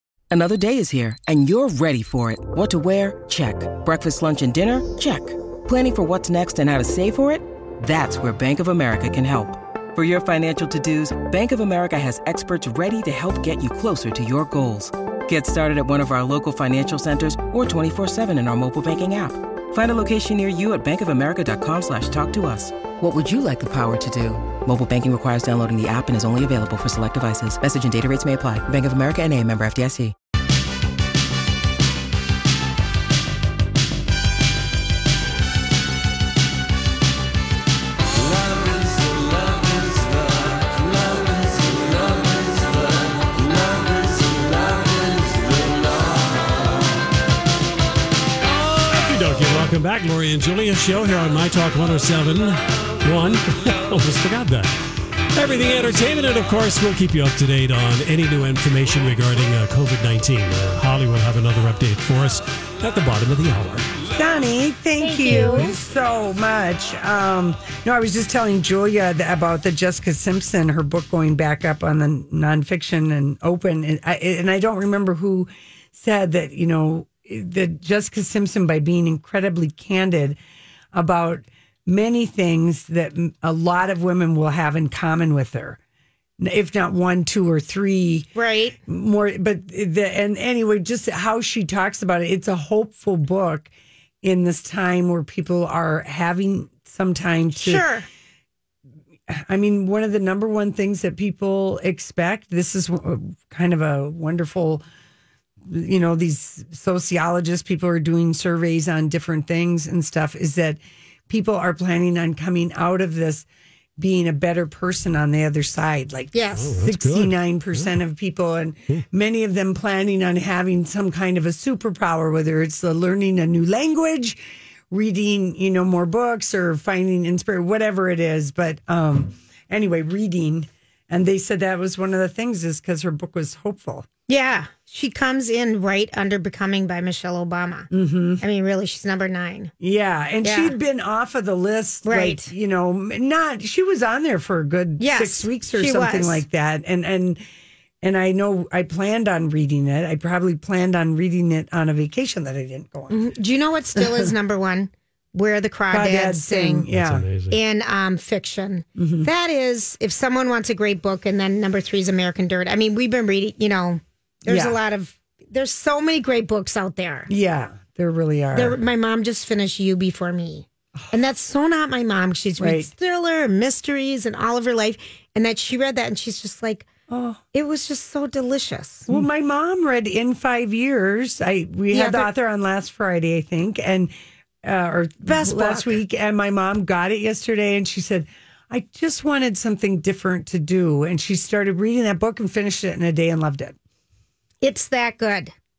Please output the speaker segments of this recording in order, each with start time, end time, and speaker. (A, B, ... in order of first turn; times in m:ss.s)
0:00.3-0:30.1 A
0:48.4-0:54.7 B
0:55.3-1:03.9 B
1:04.1-1:20.4 C
1:05.0-1:05.7 D
1:20.9-1:25.8 C
1:26.4-1:28.3 C
1:28.3-1:28.8 D
1:28.9-1:33.7 C
1:34.2-1:37.8 C
1:37.6-1:38.0 D
1:39.3-1:44.8 C
1:45.6-1:53.5 C
1:54.0-2:14.1 C
1:56.3-1:56.8 D
1:56.5-1:57.9 B
2:14.3-2:19.7 D
2:17.9-2:18.4 C
2:19.8-2:27.4 C
2:20.4-2:20.8 D
2:22.0-2:22.5 D
2:25.0-2:26.4 D
2:28.0-2:33.2 C
2:33.1-2:36.8 D
2:34.0-2:34.3 C
2:35.9-2:37.2 C
2:36.9-2:37.6 B
2:37.5-2:47.3 D
2:39.0-2:39.3 C
2:44.4-2:44.8 C
2:47.3-2:48.8 C
2:48.5-2:56.9 D
2:52.6-2:52.9 C
2:57.1-2:57.4 C
2:57.5-2:59.1 D
2:59.1-3:04.1 C
3:01.9-3:02.3 D
3:04.6-3:13.8 C
3:05.2-3:06.0 D
3:14.6-3:15.5 D